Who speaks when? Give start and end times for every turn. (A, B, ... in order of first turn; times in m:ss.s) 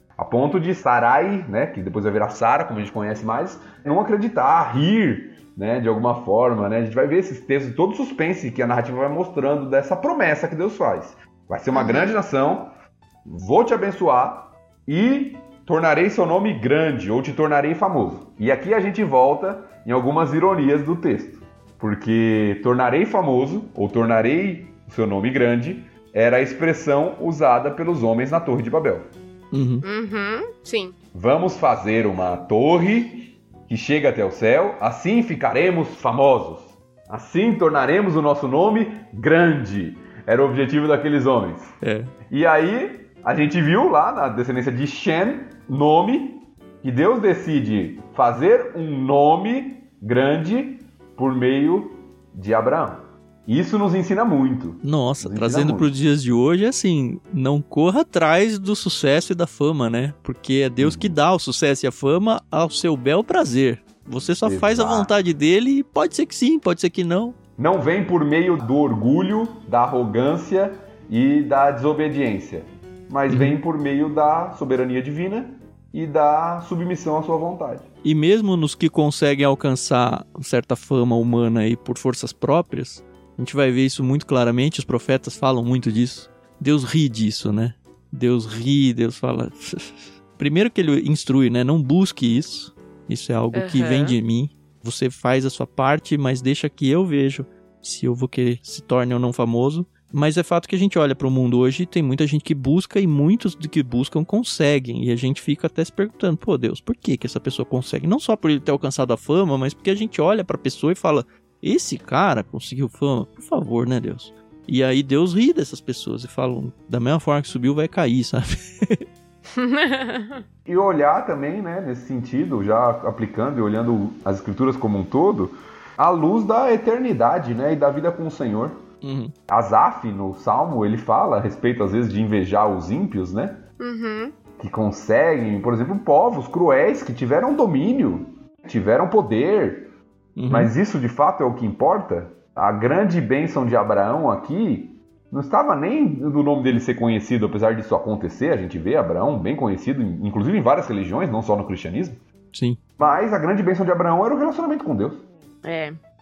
0:00.2-0:12.7 A
0:11.7-0:12.2 B
0:13.2-0:29.1 A
0:29.5-0:29.8 C
0:29.8-0:31.0 B
0:31.1-0:41.7 A
0:41.8-0:42.1 C
0:42.3-0:55.9 A
0:54.8-1:07.4 C
1:00.8-1:01.2 A
1:04.4-1:05.2 A
1:07.6-1:17.9 A
1:13.3-1:13.6 C
1:18.0-1:59.0 C
1:33.5-1:34.2 B
1:59.5-2:00.4 B
2:00.7-2:08.8 A
2:09.0-2:09.3 C
2:09.5-2:13.6 A
2:13.8-2:14.4 B
2:14.6-2:19.9 A
2:20.4-2:20.7 C
2:20.5-2:32.2 A
2:32.5-2:32.8 C
2:33.0-2:35.2 A
2:35.6-2:36.0 B